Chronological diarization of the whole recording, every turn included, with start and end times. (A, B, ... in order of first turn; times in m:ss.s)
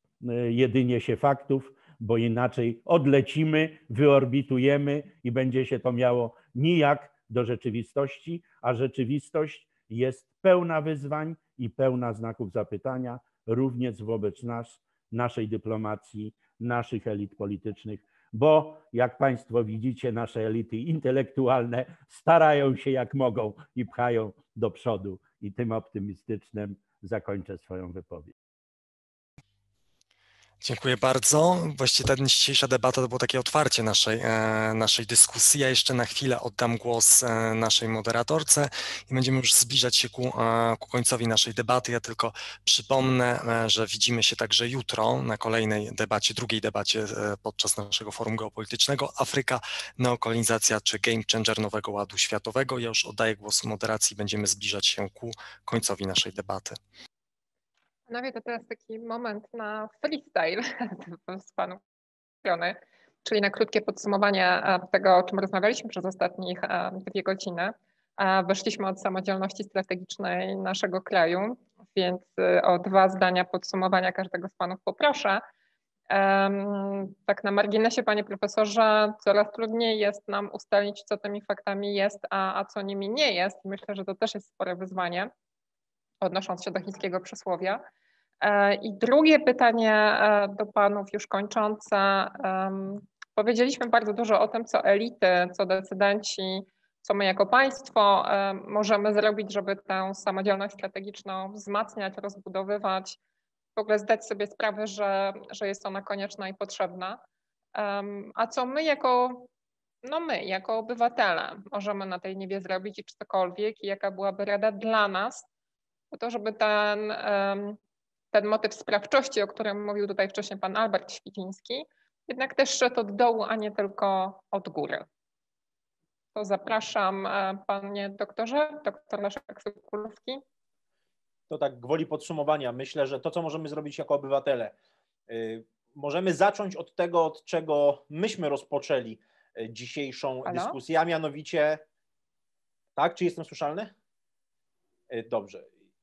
0:00.2-0:28.3 A
0:30.6-0:56.8 B
0:58.1-1:01.8 C
1:02.4-1:15.4 C
1:16.1-1:25.3 C
1:26.2-1:27.8 C
1:28.4-1:43.2 C
1:43.8-1:47.2 C
1:47.7-1:49.5 C
1:50.0-1:55.4 C
1:56.1-1:57.8 C
1:58.3-2:05.1 C
2:06.4-2:10.4 C
2:11.5-2:14.7 D
2:15.3-2:21.8 D
2:20.4-2:20.8 C
2:23.0-2:23.9 D
2:25.1-2:25.7 D